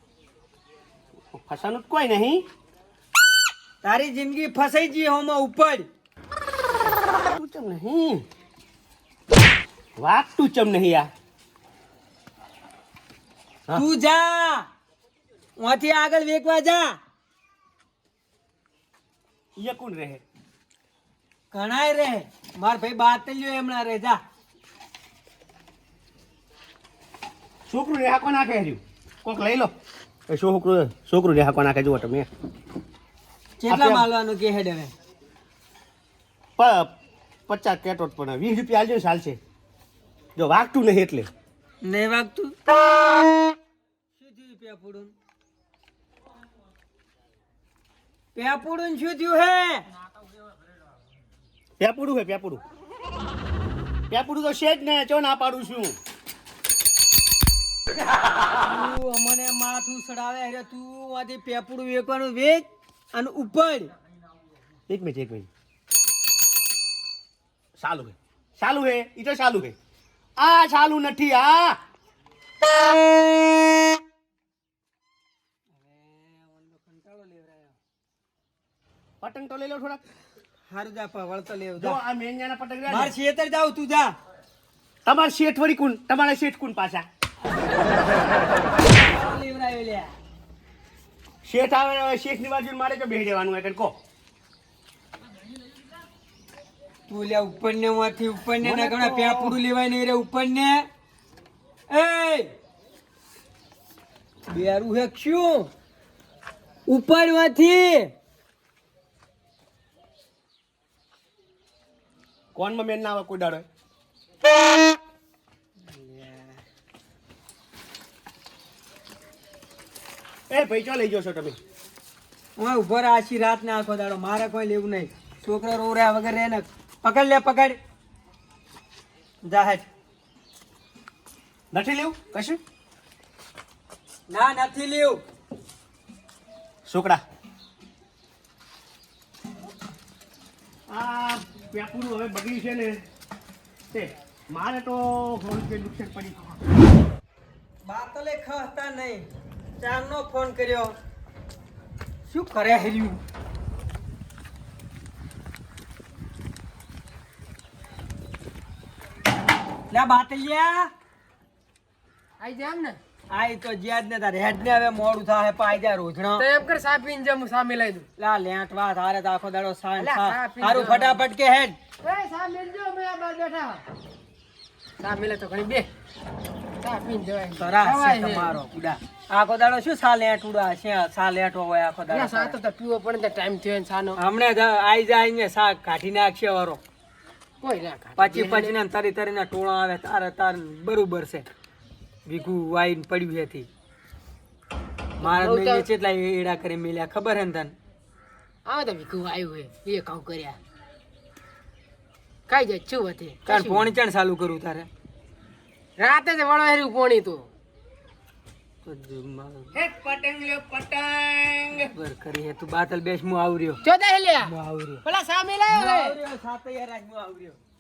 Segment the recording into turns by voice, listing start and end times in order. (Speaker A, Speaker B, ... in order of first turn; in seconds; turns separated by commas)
Speaker A: 1.3-2.5, Speaker B: 3.8-5.9, Speaker A: 7.1-8.2, Speaker A: 10.0-11.1, Speaker B: 13.7-14.7, Speaker B: 15.6-17.0, Speaker A: 19.6-20.2, Speaker B: 21.5-24.2, Speaker A: 27.7-29.7, Speaker A: 30.3-32.3, Speaker B: 33.6-34.9, Speaker A: 33.7-34.1, Speaker A: 36.6-36.9, Speaker A: 37.5-39.4, Speaker A: 40.4-41.3, Speaker B: 41.8-42.5, Speaker B: 44.2-45.1, Speaker B: 48.3-49.9, Speaker A: 51.8-52.6, Speaker A: 54.1-56.0, Speaker B: 58.6-63.9, Speaker A: 64.9-65.5, Speaker A: 67.8-69.8, Speaker A: 70.4-71.8, Speaker B: 75.7-77.8, Speaker A: 79.2-80.0, Speaker B: 80.7-82.0, Speaker A: 81.8-83.1, Speaker B: 82.9-84.1, Speaker A: 85.0-87.1, Speaker B: 88.6-90.2, Speaker A: 91.4-93.9, Speaker B: 97.1-100.9, Speaker A: 98.6-99.6, Speaker B: 101.9-102.5, Speaker B: 104.5-105.7, Speaker B: 106.9-108.1, Speaker A: 112.5-113.7, Speaker B: 115.9-116.6, Speaker A: 120.5-121.6, Speaker B: 122.6-127.8, Speaker B: 129.4-129.9, Speaker A: 131.7-132.6, Speaker B: 134.3-135.2, Speaker A: 136.9-137.2, Speaker A: 140.9-143.0, Speaker A: 143.9-146.6, Speaker B: 147.8-151.0, Speaker B: 152.3-153.2, Speaker B: 159.9-160.9, Speaker C: 162.4-163.0, Speaker B: 163.3-166.5, Speaker C: 166.4-168.1, Speaker B: 168.2-171.8, Speaker C: 170.0-171.3, Speaker C: 172.0-173.8, Speaker C: 175.0-175.9, Speaker C: 176.8-178.6, Speaker B: 177.6-182.6, Speaker C: 182.1-184.2, Speaker B: 184.2-186.8, Speaker C: 187.6-188.7, Speaker B: 188.2-191.5, Speaker B: 192.2-193.7, Speaker C: 195.2-195.9, Speaker B: 195.2-197.8, Speaker C: 198.7-200.6, Speaker C: 202.5-203.9, Speaker B: 203.5-204.9, Speaker C: 206.0-207.5, Speaker B: 208.8-209.7, Speaker A: 209.8-211.9, Speaker B: 211.9-213.8, Speaker C: 213.8-214.5, Speaker B: 214.4-215.0, Speaker C: 215.1-216.2, Speaker B: 215.7-217.6